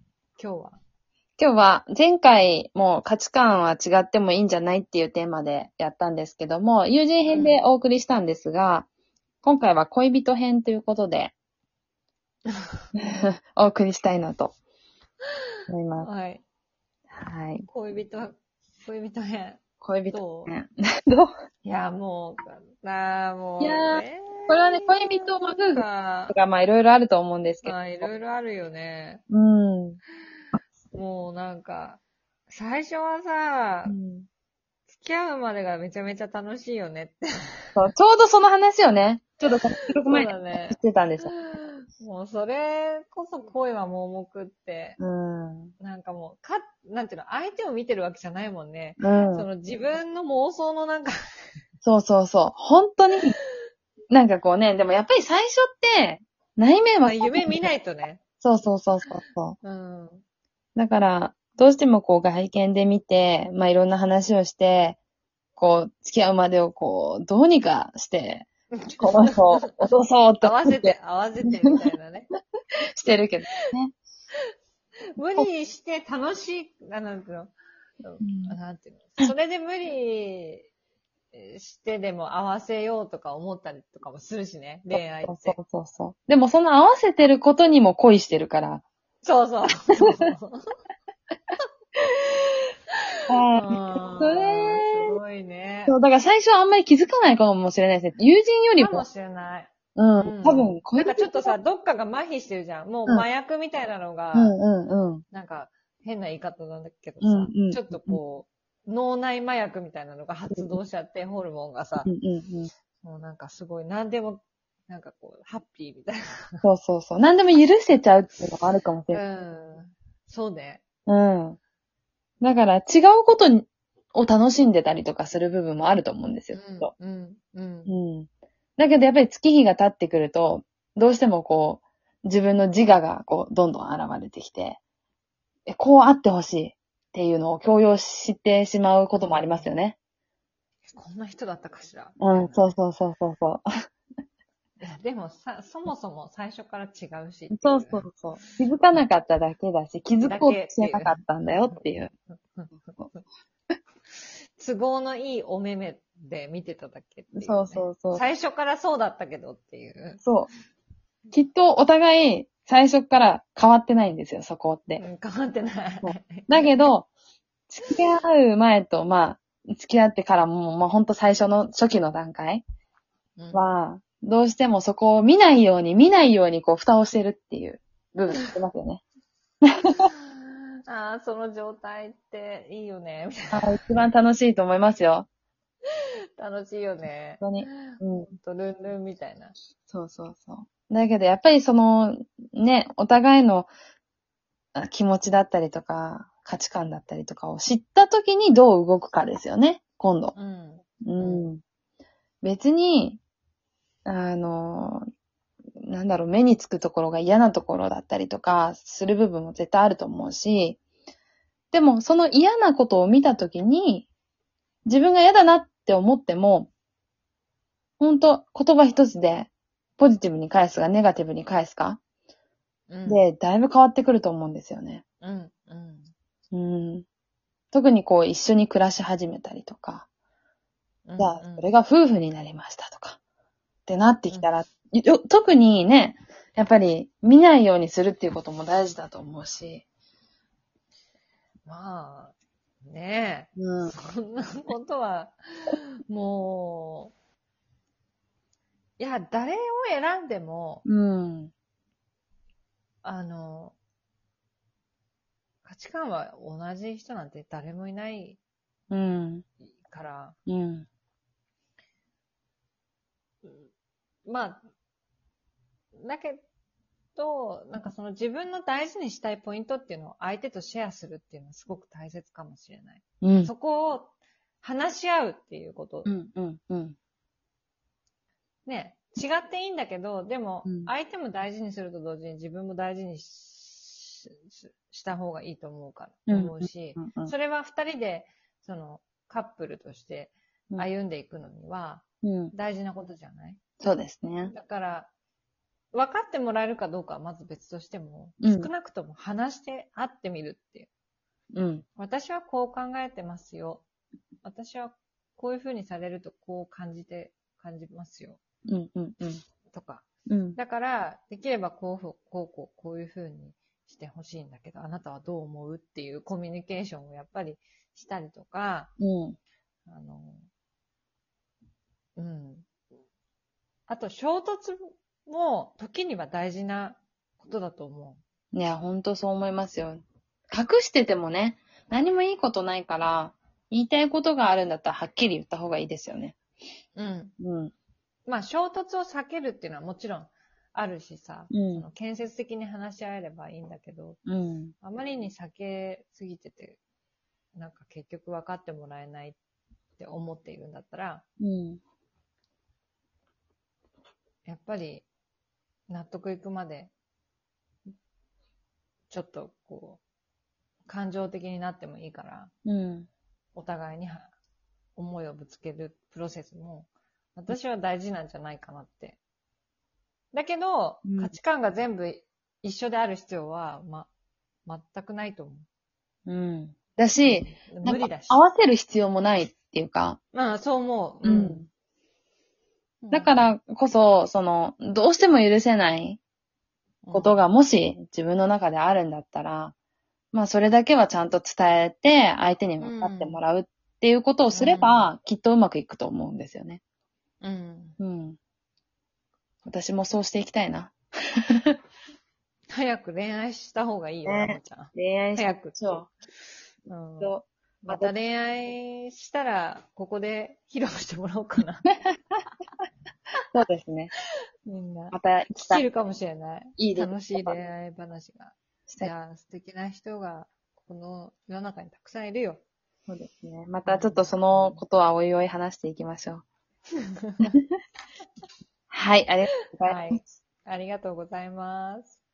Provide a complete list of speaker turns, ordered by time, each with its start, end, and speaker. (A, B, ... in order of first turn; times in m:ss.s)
0:00.4-0:00.8 A
0:01.4-0:08.9 B
0:07.3-0:07.7 A
0:09.4-0:11.3 B
0:13.0-0:14.5 B
0:15.7-0:16.1 B
0:16.0-0:16.4 A
0:17.1-0:17.7 B
0:17.7-0:20.5 A
0:19.8-0:21.3 B
0:21.6-0:26.4 A
0:23.6-0:28.1 B
0:27.6-0:29.2 A
0:29.3-0:30.0 B
0:30.9-0:34.0 A
0:33.9-0:34.3 B
0:34.9-0:37.8 A
0:37.8-0:41.4 B
0:39.8-0:45.0 A
0:45.0-0:45.8 B
0:45.8-0:51.2 A
0:49.0-0:49.5 B
0:51.8-0:53.4 B
0:54.1-0:57.7 B
0:57.0-0:58.2 A
0:58.4-0:59.6 B
0:59.6-1:00.2 A
1:00.8-1:05.0 B
1:05.6-1:08.5 B
1:08.7-1:09.8 A
1:09.0-1:11.8 B
1:10.4-1:12.3 A
1:13.0-1:14.0 B
1:15.2-1:20.7 A
1:18.2-1:18.6 B
1:21.3-1:25.6 A
1:24.9-1:28.8 B
1:29.2-1:30.6 A
1:30.0-1:30.3 B
1:32.1-1:32.6 A
1:33.3-1:35.2 B
1:33.5-1:36.0 A
1:35.9-1:39.1 B
1:38.8-1:44.6 A
1:40.0-1:41.5 B
1:44.3-1:45.2 B
1:45.3-1:52.1 A
1:47.2-1:48.2 B
1:50.5-1:50.8 B
1:52.0-1:52.7 B
1:53.0-1:56.6 A
1:56.6-1:59.2 B
1:59.1-2:00.8 A
2:01.1-2:01.6 B
2:02.4-2:06.9 B
2:06.5-2:08.0 A
2:07.9-2:14.8 B
2:15.7-2:20.0 B
2:19.1-2:19.7 A
2:20.9-2:22.6 A
2:22.2-2:23.7 B
2:24.8-2:28.2 A
2:27.5-2:32.1 B
2:30.2-2:31.8 A
2:32.5-2:33.2 A
2:34.6-2:40.3 A
2:37.3-2:38.2 B
2:40.2-2:40.5 B
2:41.3-2:45.0 B
2:45.0-2:46.9 A
2:46.0-2:47.1 B
2:47.7-2:52.6 B
2:53.4-2:53.7 A
2:53.5-2:59.0 B
2:59.6-3:00.1 B
3:00.2-3:03.8 A
3:03.5-3:05.3 B
3:06.4-3:09.6 A
3:07.4-3:08.3 B
3:09.9-3:13.7 B
3:14.8-3:20.4 B
3:20.4-3:21.5 A
3:21.0-3:21.6 B
3:22.4-3:23.2 B
3:24.1-3:25.0 B
3:25.8-3:30.8 B
3:31.7-3:34.1 B
3:34.9-3:36.7 B
3:38.0-3:42.0 B
3:42.9-3:43.2 A
3:43.1-3:45.0 B
3:45.2-3:46.1 A
3:46.5-3:47.0 B
3:47.7-3:50.1 B
3:51.1-3:51.7 A
3:51.2-3:53.2 B
3:53.9-3:59.8 B
4:01.7-4:07.1 A
4:03.6-4:03.9 B
4:09.0-4:10.9 A
4:10.9-4:11.5 B
4:13.0-4:13.8 A
4:15.6-4:18.4 A
4:18.9-4:19.4 B
4:19.8-4:20.4 A
4:20.5-4:20.9 B
4:24.3-4:24.6 A
4:26.0-4:26.4 A
4:27.2-4:36.1 A
4:33.2-4:33.5 B
4:36.1-4:37.0 B
4:38.7-4:53.6 A
4:40.6-4:40.9 B
4:46.3-4:47.3 B
4:52.2-4:52.5 B
4:53.8-4:54.5 B
4:54.5-4:55.1 A
4:55.9-5:00.9 A
4:58.4-4:58.7 B
5:01.6-5:01.8 B
5:02.0-5:03.8 A
5:04.4-5:08.4 A
5:08.7-5:09.4 B
5:09.7-5:10.0 A
5:10.3-5:10.6 B
5:10.6-5:18.9 A
5:19.0-5:19.4 B
5:19.9-5:20.5 A
5:22.2-5:22.7 A
5:23.9-5:28.2 A
5:28.5-5:36.4 B
5:37.0-5:37.4 A
5:37.4-5:37.7 B
5:38.3-5:44.2 A
5:41.5-5:41.8 B
5:44.3-5:44.7 B
5:44.8-5:46.8 A
5:47.6-5:49.4 A
5:50.0-5:51.2 A
5:51.4-5:51.8 B
5:54.4-5:55.0 A
5:55.9-5:56.9 A
5:59.1-6:00.0 A
6:00.9-6:02.5 A
6:02.7-6:03.1 B
6:03.6-6:04.3 A
6:05.0-6:09.2 A
6:10.3-6:14.1 A
6:11.0-6:11.4 B
6:14.7-6:15.7 A
6:16.3-6:20.2 B
6:17.2-6:18.4 A
6:20.3-6:21.6 A
6:21.2-6:21.7 B
6:23.0-6:23.5 A
6:23.1-6:26.2 B
6:27.0-6:27.4 A
6:27.1-6:29.7 B
6:30.3-6:36.8 B
6:32.8-6:33.4 A
6:34.5-6:35.1 A
6:37.4-6:38.0 A
6:38.0-6:38.4 B
6:39.6-6:41.8 B
6:42.7-6:45.8 A
6:44.2-6:46.1 B
6:46.9-6:51.9 A
6:47.2-6:48.1 B
6:53.5-6:54.1 B
6:54.7-7:02.6 A
6:55.1-6:55.8 B
6:56.8-6:57.6 B
7:03.1-7:06.4 B
7:03.9-7:04.8 A
7:07.2-7:07.5 A
7:08.9-7:10.3 B
7:09.7-7:12.2 A